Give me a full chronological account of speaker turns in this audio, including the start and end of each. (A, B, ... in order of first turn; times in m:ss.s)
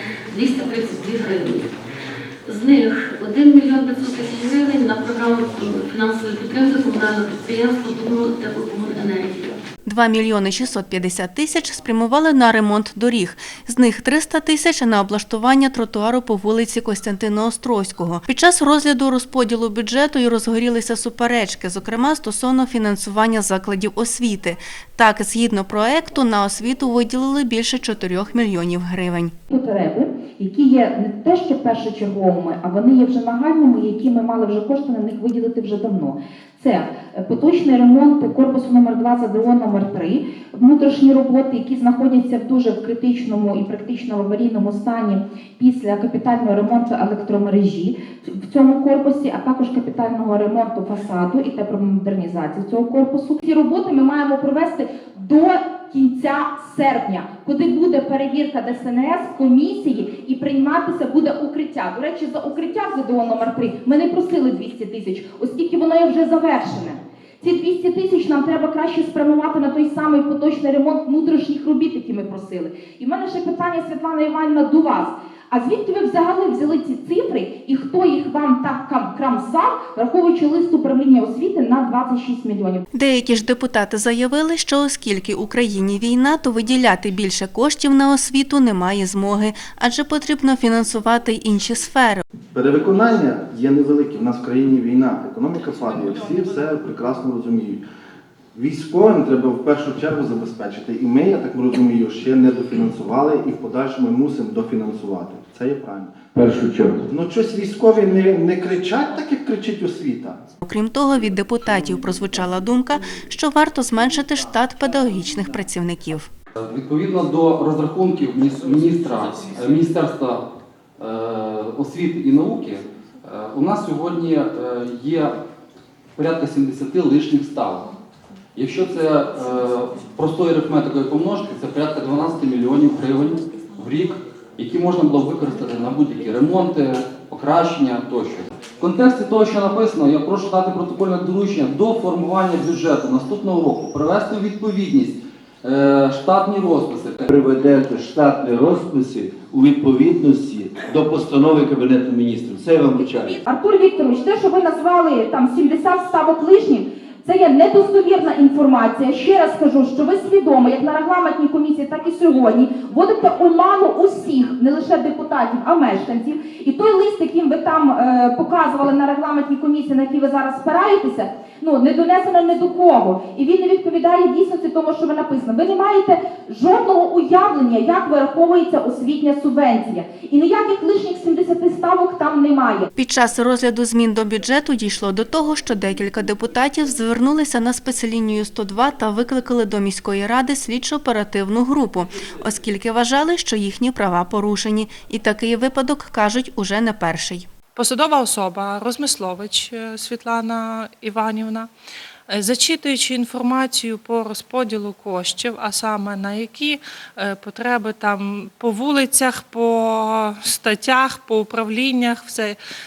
0:00.3-0:01.8 A
0:02.4-0:09.6 A
0:09.8-0:29.3 B
0:29.5-1:22.8 C
1:22.9-1:32.2 B
1:32.5-1:37.8 D
1:35.8-1:36.4 E
1:38.5-1:46.2 D
1:46.4-1:47.0 F
1:47.1-1:50.4 D
1:50.6-1:56.3 B
1:56.6-2:00.4 G
2:01.0-2:05.4 G
2:06.2-2:07.9 G
2:08.5-2:27.2 G
2:27.3-2:33.2 F
2:33.4-3:02.9 C
3:03.0-3:17.5 B
3:17.8-3:21.7 E
3:22.3-3:32.6 E